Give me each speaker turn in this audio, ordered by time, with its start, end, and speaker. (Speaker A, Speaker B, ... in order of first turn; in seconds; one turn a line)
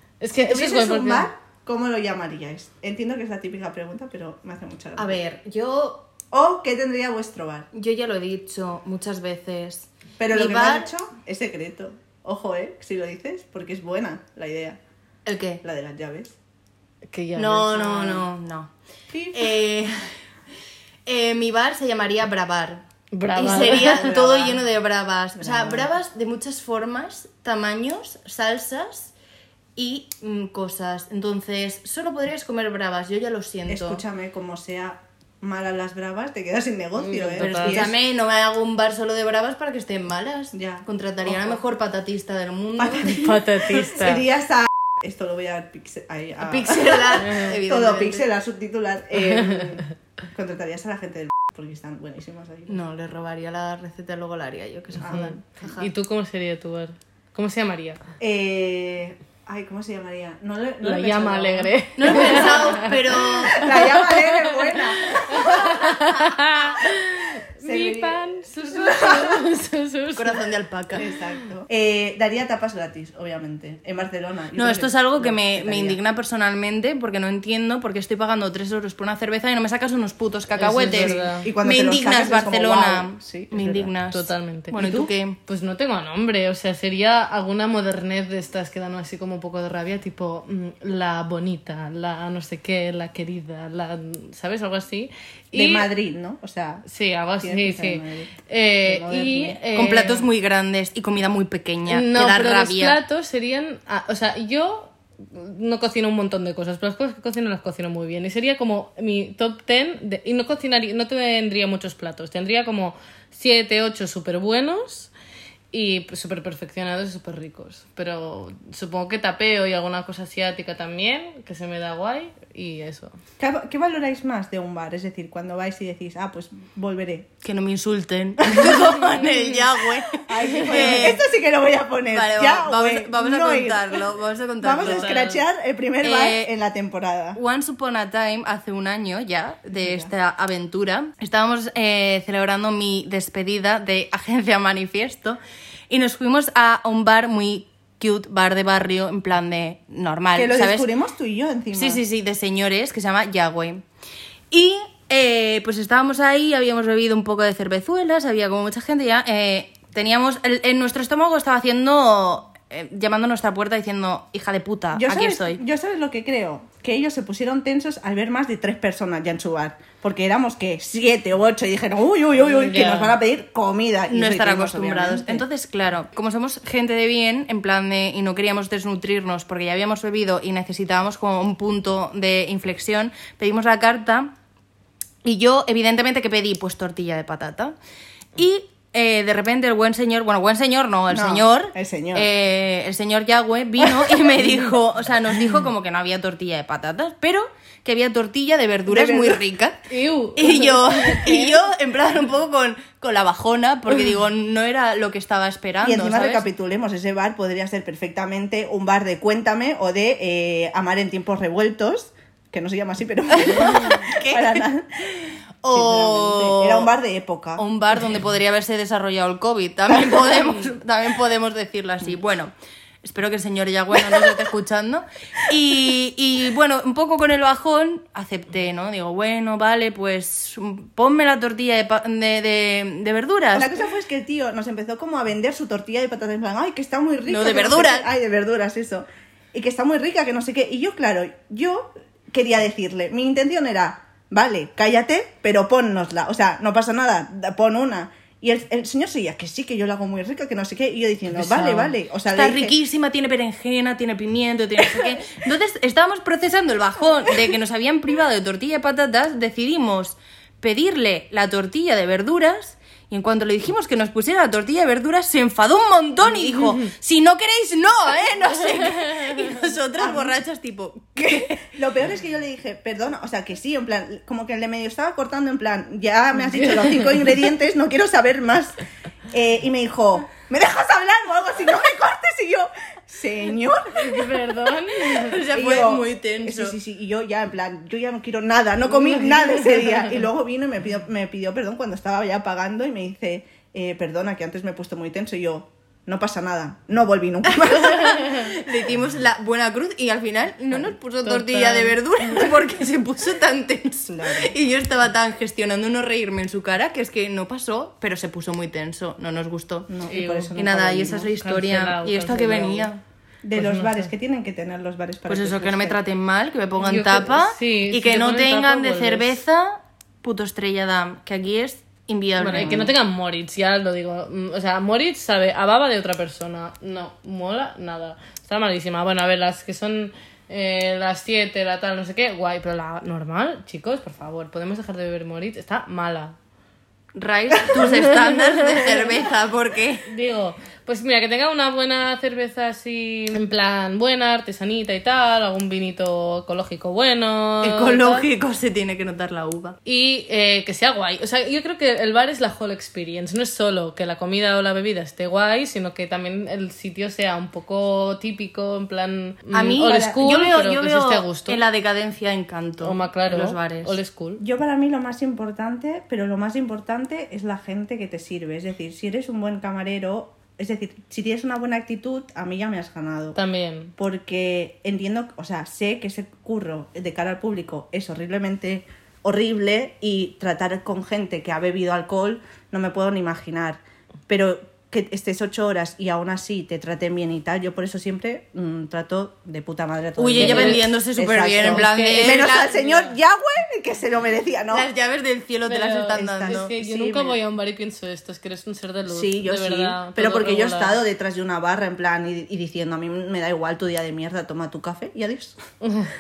Speaker A: 0.2-1.3
Speaker B: 0.4-5.2
Speaker C: 5.0-6.1
Speaker B: 6.3-7.7
Speaker C: 7.7-10.9
Speaker B: 10.2-14.8
Speaker C: 15.3-15.6
Speaker B: 15.6-16.4
Speaker A: 17.1-18.1
Speaker C: 17.4-18.7
Speaker B: 17.8-18.2
Speaker B: 19.1-19.6
Speaker C: 19.3-20.1
Speaker C: 21.1-29.1
Speaker A: 23.1-24.0
Speaker B: 23.5-24.6
Speaker B: 25.4-25.9
Speaker C: 29.8-34.0
Speaker B: 33.7-37.9
Speaker A: 37.0-37.9
Speaker C: 37.4-43.2
Speaker B: 40.5-41.6
Speaker B: 42.8-52.8
Speaker A: 43.1-44.2
Speaker C: 46.4-48.3
Speaker A: 47.2-47.5
Speaker A: 49.3-49.7
Speaker C: 52.7-55.9
Speaker B: 55.0-55.3
Speaker A: 55.1-58.0
Speaker B: 58.2-66.0
Speaker A: 60.8-63.0
Speaker C: 62.0-63.7
Speaker A: 63.5-70.4
Speaker B: 67.6-69.4
Speaker C: 70.2-71.1
Speaker B: 70.9-76.0
Speaker C: 74.6-85.4
Speaker A: 80.6-81.5
Speaker B: 80.9-83.9
Speaker A: 84.1-84.8
Speaker B: 84.8-85.1
Speaker A: 85.5-95.9
Speaker B: 95.5-96.9
Speaker A: 96.9-100.3
Speaker B: 97.4-99.6
Speaker C: 99.8-103.0
Speaker A: 101.9-115.1
Speaker A: 115.7-123.2
Speaker B: 123.4-127.3
Speaker C: 127.4-131.2
Speaker B: 128.5-128.9
Speaker B: 130.1-134.1
Speaker A: 130.4-131.0
Speaker C: 132.1-135.4
Speaker B: 134.6-137.4
Speaker A: 134.8-135.3
Speaker C: 136.0-136.5
Speaker C: 137.3-145.4
Speaker B: 139.8-140.1
Speaker C: 145.9-150.9
Speaker B: 150.3-152.0
Speaker C: 151.7-153.8
Speaker C: 154.5-165.6
Speaker B: 164.9-175.4
Speaker A: 172.4-173.1
Speaker C: 174.1-184.3
Speaker C: 185.2-187.8
Speaker C: 188.4-199.8
Speaker B: 191.1-192.3
Speaker B: 193.8-194.3
Speaker B: 198.9-199.4
Speaker A: 199.9-201.6
Speaker C: 200.4-206.5
Speaker B: 205.8-215.0
Speaker C: 213.3-216.9
Speaker B: 215.7-217.6
Speaker C: 217.6-222.5
Speaker B: 219.9-220.2
Speaker C: 223.0-233.7
Speaker B: 233.5-252.8
Speaker C: 237.3-238.1
Speaker A: 251.3-251.9
Speaker C: 252.3-271.7
Speaker A: 266.4-266.9
Speaker A: 268.9-269.3
Speaker B: 270.0-270.4
Speaker B: 271.2-278.8
Speaker A: 276.5-277.3
Speaker B: 279.3-284.3
Speaker A: 283.9-285.4
Speaker C: 285.1-286.8
Speaker B: 285.5-298.3
Speaker A: 289.1-290.0
Speaker C: 297.6-310.0
Speaker A: 301.2-302.0
Speaker B: 304.1-304.5
Speaker B: 309.9-311.3
Speaker A: 310.1-310.5
Speaker C: 310.5-313.0
Speaker A: 311.4-312.9
Speaker B: 313.4-316.0
Speaker A: 313.6-314.1
Speaker C: 315.3-322.9
Speaker A: 316.8-319.4
Speaker A: 322.4-336.4
Speaker B: 322.6-322.9
Speaker C: 337.1-340.1
Speaker A: 337.8-338.9
Speaker A: 340.1-348.3
Speaker C: 347.6-349.8
Speaker A: 349.9-361.6
Speaker C: 359.5-364.0
Speaker B: 359.9-360.2
Speaker A: 362.8-364.4
Speaker B: 364.4-373.4
Speaker A: 373.4-373.9
Speaker B: 374.0-394.9
Speaker C: 390.2-392.8
Speaker A: 390.4-390.9
Speaker A: 391.6-393.1
Speaker C: 394.7-396.7
Speaker A: 395.7-401.0
Speaker B: 396.1-397.4
Speaker B: 399.1-405.6
Speaker A: 405.8-406.1